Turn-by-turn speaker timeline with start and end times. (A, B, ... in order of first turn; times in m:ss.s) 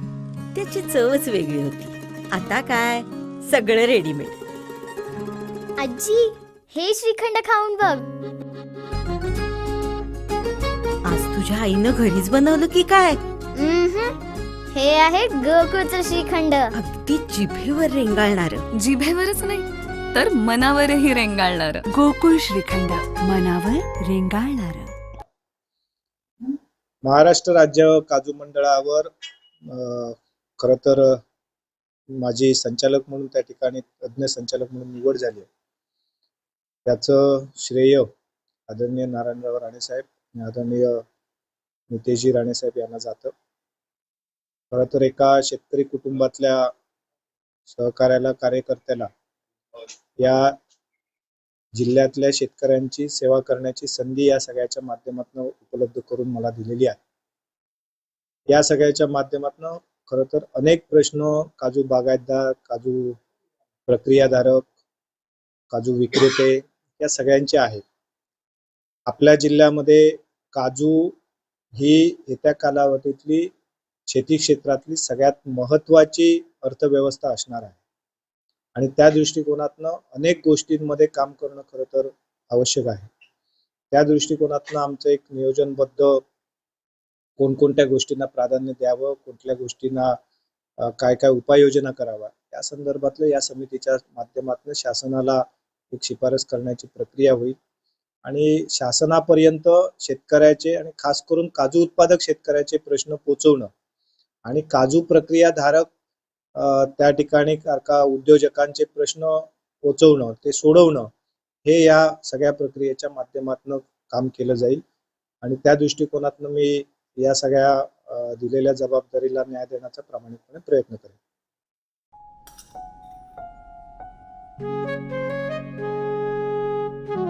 0:00.5-0:04.4 A
0:05.8-0:08.0 B
0:11.0-0:13.2 A
0:13.5-0:14.2 B
0:14.7-0:16.7 B
0:16.7-0:18.6 A
0:18.8-0:21.8 C
0:18.9-0:19.4 D
0:20.5-0:24.9 D
0:26.4-0:29.1 E
0:29.7-0:31.2 E
0:32.2-0:35.5 E
0:36.8-0:38.1 E
0:38.7-0:41.0 E
0:41.9-0:43.3 E
0:44.7-0:46.7 E
0:47.7-0:49.1 E
0:50.2-0:50.5 E
0:51.7-0:57.0 E
0:58.5-1:03.2 E
1:03.9-1:04.7 E
1:05.7-1:07.8 E
1:09.1-1:11.1 E
1:11.8-1:13.5 E
1:14.1-1:17.8 E
1:18.7-1:23.1 E
1:23.9-1:26.2 E
1:27.4-1:30.2 E
1:30.8-1:37.6 E
1:38.2-1:43.7 E
1:44.4-1:45.9 E
1:46.6-1:51.1 E
1:51.6-1:54.8 E
1:55.4-2:01.2 E